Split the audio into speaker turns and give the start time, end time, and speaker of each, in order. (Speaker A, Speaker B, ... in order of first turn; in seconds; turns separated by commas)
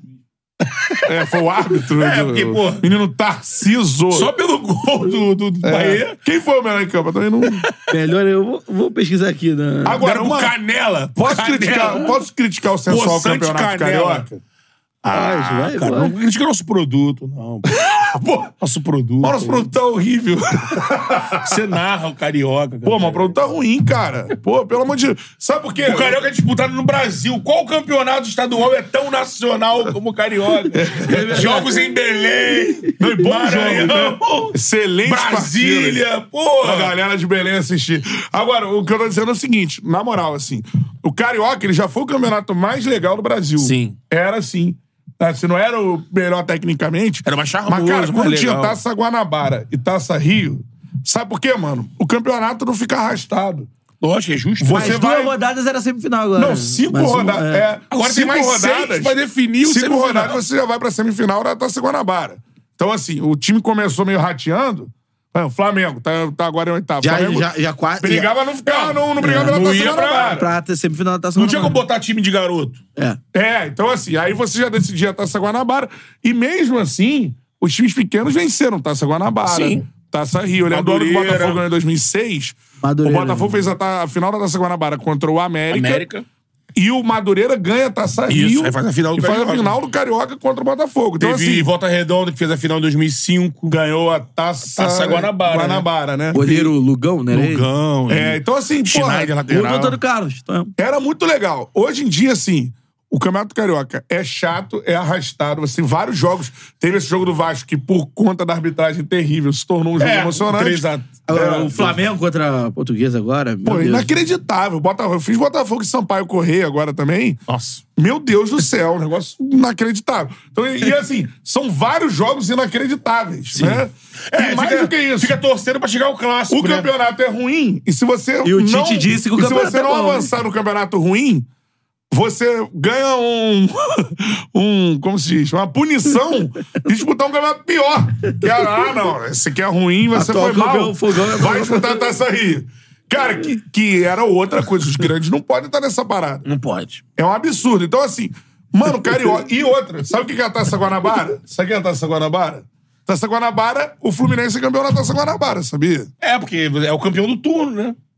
Speaker A: 0.6-1.1, Speaker B: 1.1-4.3, Speaker A: 1.8-2.9, Speaker A: 4.1-6.2, Speaker B: 5.6-7.7, Speaker C: 7.9-10.0, Speaker B: 9.8-10.6, Speaker A: 10.0-12.2, Speaker B: 11.2-14.4, Speaker A: 12.9-14.3, Speaker A: 15.0-19.7, Speaker C: 15.1-16.1, Speaker B: 17.7-18.5, Speaker B: 19.2-21.6, Speaker A: 21.4-23.3, Speaker B: 22.8-26.2, Speaker A: 25.8-34.5, Speaker B: 30.7-31.4, Speaker C: 30.9-31.9, Speaker B: 33.0-36.0, Speaker A: 35.0-36.9, Speaker B: 36.6-53.7, Speaker A: 43.6-44.0, Speaker A: 47.3-48.8, Speaker A: 54.0-55.0, Speaker B: 54.6-55.3, Speaker C: 54.7-57.7, Speaker B: 56.4-70.5, Speaker A: 57.9-60.4, Speaker C: 67.0-68.3, Speaker A: 68.6-70.5, Speaker C: 69.2-71.8, Speaker A: 71.4-72.8, Speaker B: 73.3-86.0, Speaker A: 79.5-79.8, Speaker A: 80.7-81.6, Speaker C: 82.8-83.6, Speaker A: 85.7-86.2, Speaker B: 86.8-91.7, Speaker A: 88.3-89.8, Speaker A: 91.2-93.8, Speaker B: 93.7-96.7, Speaker A: 94.7-95.9, Speaker C: 96.3-97.7, Speaker A: 97.3-100.0, Speaker B: 98.1-99.3, Speaker C: 99.5-100.7, Speaker B: 100.8-112.0, Speaker A: 110.0-111.1, Speaker C: 111.3-114.1, Speaker B: 113.6-117.4, Speaker A: 117.5-117.8, Speaker B: 118.0-125.4, Speaker A: 123.5-126.9, Speaker B: 126.5-131.5, Speaker C: 128.4-130.3, Speaker B: 132.1-146.4, Speaker C: 140.1-142.0, Speaker A: 146.4-147.0, Speaker B: 147.2-156.1, Speaker A: 156.2-157.9